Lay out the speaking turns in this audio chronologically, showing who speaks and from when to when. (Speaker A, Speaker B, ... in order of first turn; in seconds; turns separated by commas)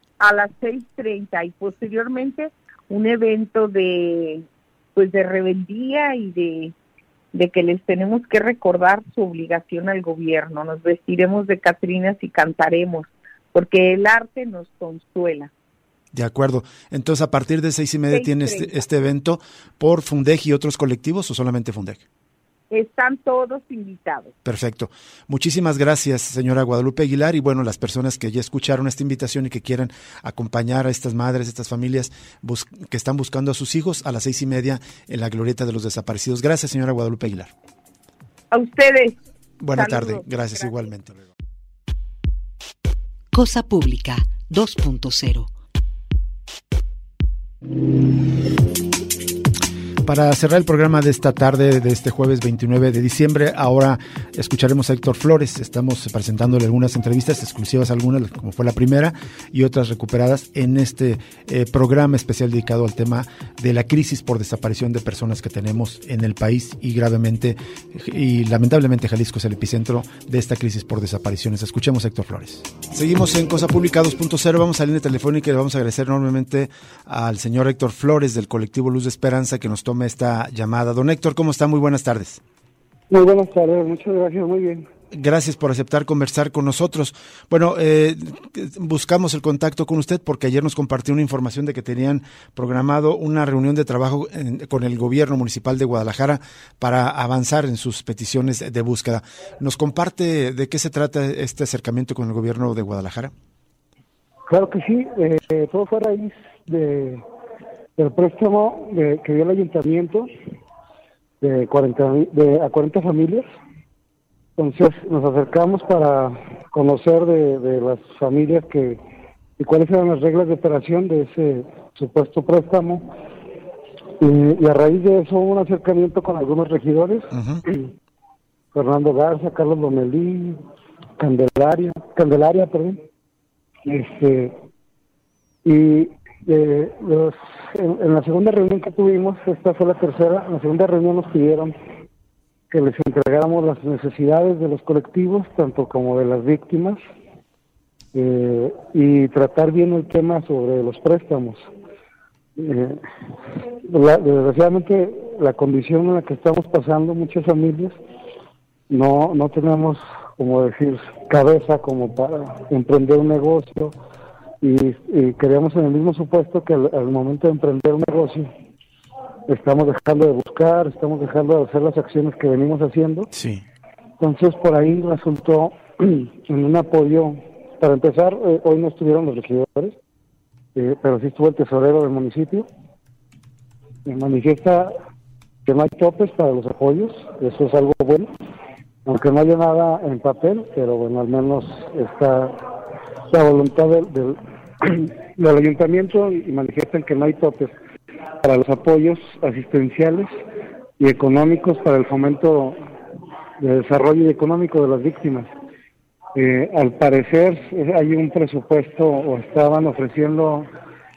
Speaker A: 0.2-6.7, Speaker A: 7.3-15.5, Speaker B: 16.1-22.0, Speaker A: 18.1-18.8, Speaker A: 22.7-24.3, Speaker B: 24.4-37.5, Speaker A: 38.5-39.2, Speaker B: 39.6-41.1, Speaker A: 39.7-40.2, Speaker C: 43.3-45.5, Speaker B: 50.0-82.4, Speaker D: 83.1-84.9, Speaker B: 85.1-103.3, Speaker D: 104.5-107.2, Speaker D: 108.0-110.3, Speaker D: 111.4-113.5, Speaker D: 114.6-119.0, Speaker D: 119.6-123.1, Speaker D: 124.2-127.9, Speaker B: 127.3-127.6, Speaker D: 128.7-130.6, Speaker D: 131.2-133.1, Speaker D: 133.8-134.5, Speaker D: 135.6-141.7, Speaker D: 142.7-147.0, Speaker D: 148.1-151.7, Speaker D: 152.6-153.0, Speaker D: 153.9-157.9, Speaker D: 158.9-163.9, Speaker D: 164.6-168.5, Speaker D: 169.5-173.3, Speaker B: 173.3-173.6, Speaker D: 174.2-179.9, Speaker D: 180.7-182.7, Speaker D: 184.1-184.9, Speaker D: 185.6-188.3, Speaker D: 189.0-192.7, Speaker D: 193.3-197.7, Speaker D: 198.4-200.3, Speaker D: 201.0-202.8, Speaker D: 203.6-205.5, Speaker D: 206.3-210.7